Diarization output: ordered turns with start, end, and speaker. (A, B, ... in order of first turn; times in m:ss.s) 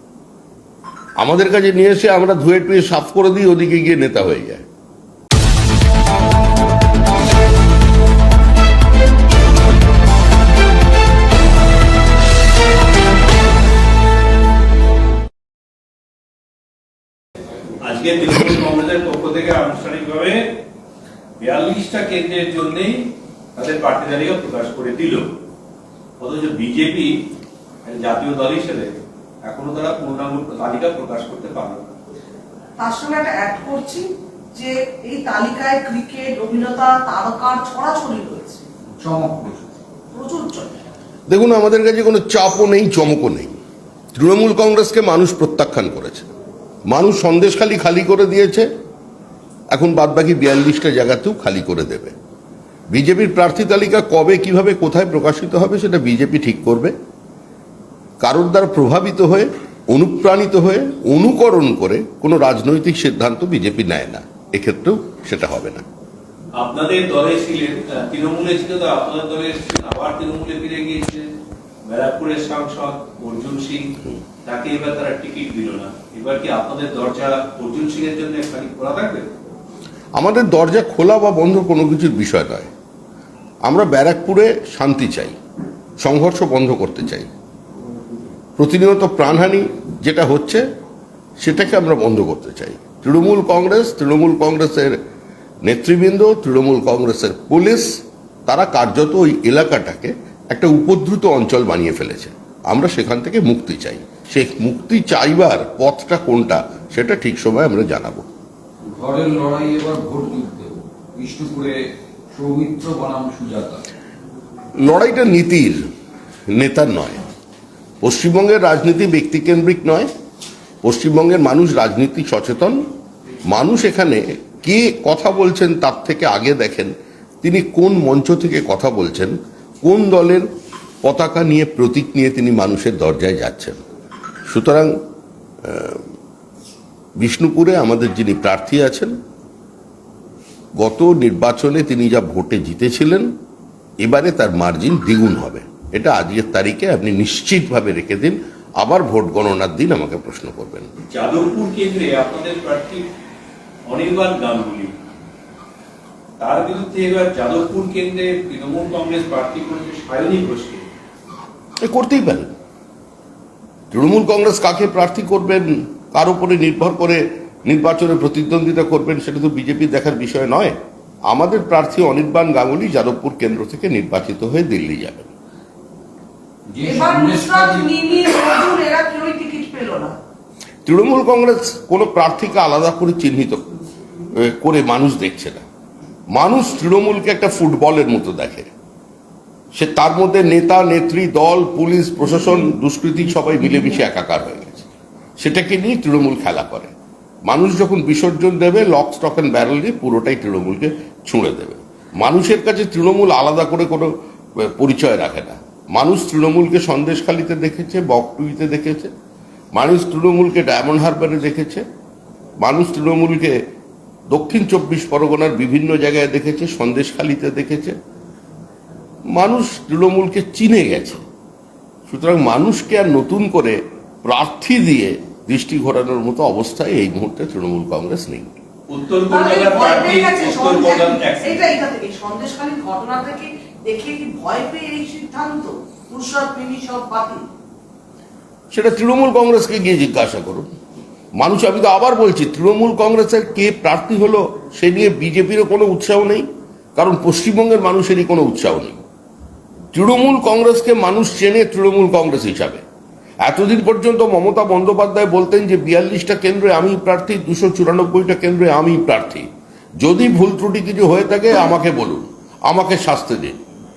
0:01.2-0:04.6 A
0:17.8-0:20.4 B
0:21.4-0:25.3 B
0:26.2-0:27.1 B
0:27.8-0:31.9 B
0:32.8-0:38.6 C
0:39.0-0:39.7 D
0:40.1-0:40.8 C
0:41.3-0:43.6 A
0:44.1-0:46.3 A
0:46.9-0:48.7 A
0:49.7-0:52.1 A
0:52.9-0:56.9 A
0:58.2-1:05.8 A
1:06.5-1:11.3 B
1:11.8-1:13.9 B
1:14.4-1:19.3 B
1:20.1-1:22.7 A
1:23.6-1:25.4 A
1:26.0-1:27.3 A
1:28.6-1:30.6 A
1:31.4-1:35.0 A
1:35.6-1:48.3 A
1:48.8-1:51.8 D
1:52.3-1:53.8 D
1:54.8-1:55.8 A
1:56.5-1:57.2 A
1:58.0-2:00.1 A
2:00.8-2:02.8 A
2:03.5-2:10.5 A
2:11.0-2:13.8 A
2:14.5-2:14.9 A
2:15.6-2:16.0 A
2:17.2-2:19.2 A
2:20.8-2:23.3 A
2:24.0-2:30.9 A
2:31.1-2:33.0 B
2:33.9-2:34.9 B
2:36.4-2:40.8 B
2:41.8-2:42.5 A
2:43.9-2:50.8 A
2:51.3-2:55.3 A
2:56.7-2:58.0 D
2:56.8-3:00.2 C
3:00.8-3:03.7 A
3:04.4-3:05.6 A
3:06.3-3:08.7 A
3:09.7-3:14.9 A
3:15.4-3:16.9 A
3:17.4-3:29.1 A
3:29.7-3:31.8 A
3:32.6-3:33.6 A
3:34.3-3:38.0 A
3:39.3-3:41.2 A
3:42.1-3:48.5 A
3:48.9-3:51.7 B
3:49.3-3:57.4 C
3:58.7-4:00.7 A
4:01.4-4:09.0 A
4:09.9-4:12.8 A
4:13.4-4:19.5 A
4:20.0-4:23.6 A